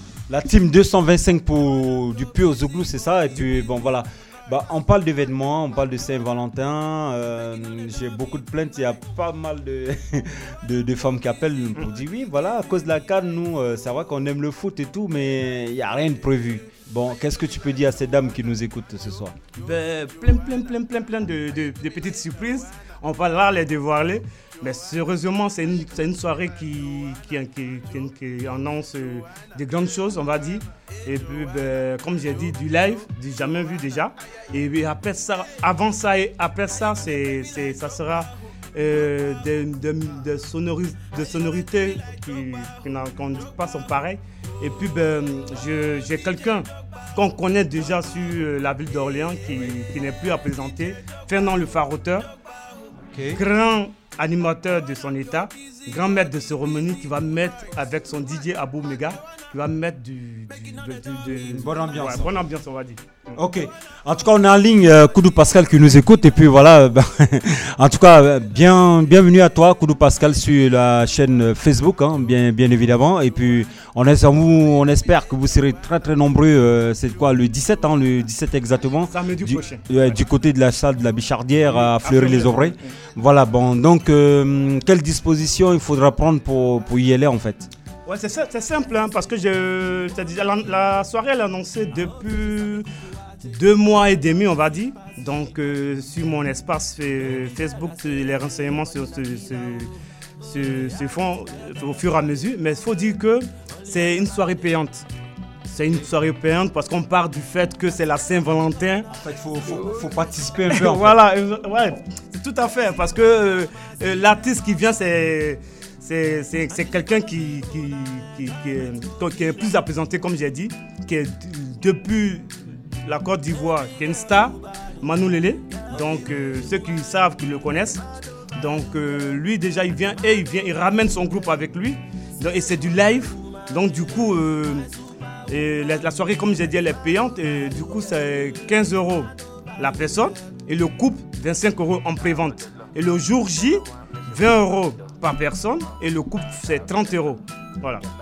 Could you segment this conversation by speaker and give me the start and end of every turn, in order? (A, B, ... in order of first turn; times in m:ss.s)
0:00.3-0:19.4 A
0:19.6-0:52.3 B
0:53.1-0:53.4 A
0:53.3-1:03.4 B
1:01.4-1:02.3 A
1:03.4-1:27.7 A
1:19.1-1:20.2 B
1:21.6-1:22.8 B
1:28.0-1:32.9 B
1:33.4-1:39.9 B
1:40.4-1:45.0 B
1:45.7-1:49.1 B
1:49.1-1:51.2 A
1:50.7-2:08.0 B
2:08.6-2:14.9 B
2:15.5-2:28.0 B